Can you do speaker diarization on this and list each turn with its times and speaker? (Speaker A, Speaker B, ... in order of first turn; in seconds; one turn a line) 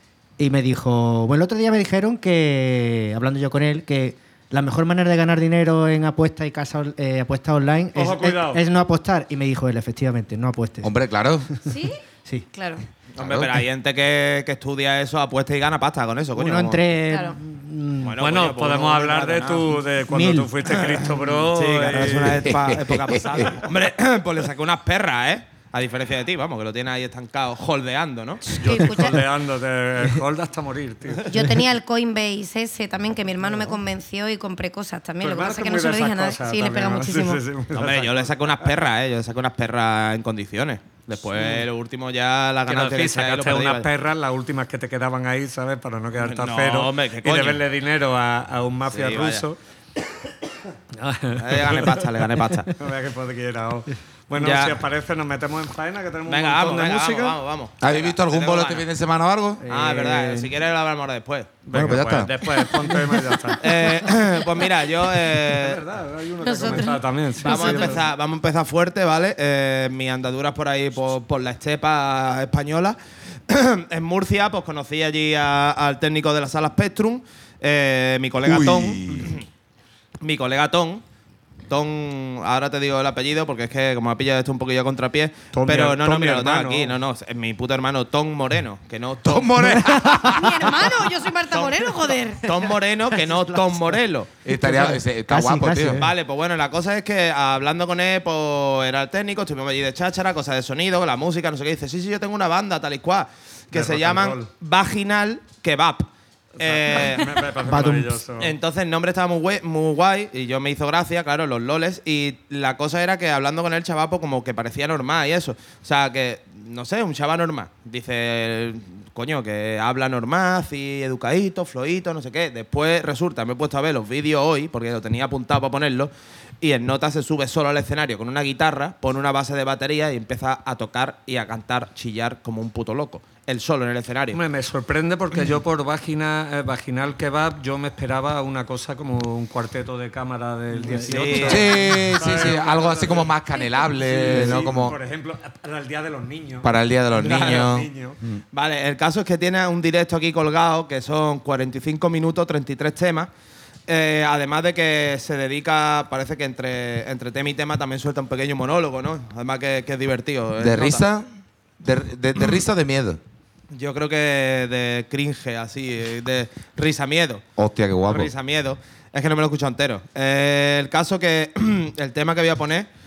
Speaker A: 0.4-10.9
Speaker B: 8.0-8.6
Speaker C: 10.8-11.5
Speaker D: 11.7-12.0
Speaker D: 12.5-12.8
Speaker E: 13.2-16.8
Speaker C: 13.2-13.6
Speaker A: 16.4-18.1
Speaker D: 17.1-17.4
Speaker E: 18.0-19.7
Speaker B: 18.2-22.4
Speaker A: 20.1-20.5
Speaker E: 21.4-28.4
Speaker C: 22.4-23.6
Speaker D: 28.5-29.2
Speaker B: 28.6-31.3
Speaker D: 31.3-37.4
Speaker B: 33.5-33.7
Speaker B: 35.2-38.5
Speaker E: 37.7-43.9
Speaker B: 41.4-41.6
Speaker B: 42.7-49.6
Speaker E: 46.2-47.6
Speaker E: 48.9-49.5
Speaker B: 50.9-52.0
Speaker E: 51.4-52.7
Speaker B: 52.7-57.4
Speaker E: 54.4-54.8
Speaker E: 56.3-58.9
Speaker C: 57.8-59.6
Speaker A: 59.6-60.5
Speaker E: 59.7-61.5
Speaker B: 61.7-63.6
Speaker C: 61.7-62.3
Speaker E: 63.6-65.8
Speaker B: 65.4-68.0
Speaker D: 66.4-68.0
Speaker E: 67.4-73.0
Speaker E: 73.5-79.5
Speaker C: 78.4-79.4
Speaker E: 80.2-81.0
Speaker E: 81.7-89.6
Speaker B: 85.5-86.9
Speaker C: 89.2-90.8
Speaker D: 90.2-92.5
Speaker E: 91.5-91.9
Speaker E: 92.4-94.3
Speaker C: 94.4-96.1
Speaker A: 94.5-96.1
Speaker E: 96.0-106.1
Speaker B: 103.7-104.5
Speaker B: 106.6-108.5
Speaker E: 106.6-107.4
Speaker A: 107.7-108.1
Speaker E: 108.4-134.4
Speaker B: 134.3-143.3
Speaker A: 140.8-141.5
Speaker E: 141.1-141.7
Speaker C: 141.4-145.0
Speaker B: 143.9-148.2
Speaker C: 146.6-147.9
Speaker E: 148.5-153.3
Speaker E: 153.9-161.0
Speaker C: 160.6-161.3
Speaker C: 161.8-163.2
Speaker E: 163.7-167.4
Speaker C: 167.6-168.3
Speaker E: 168.1-172.9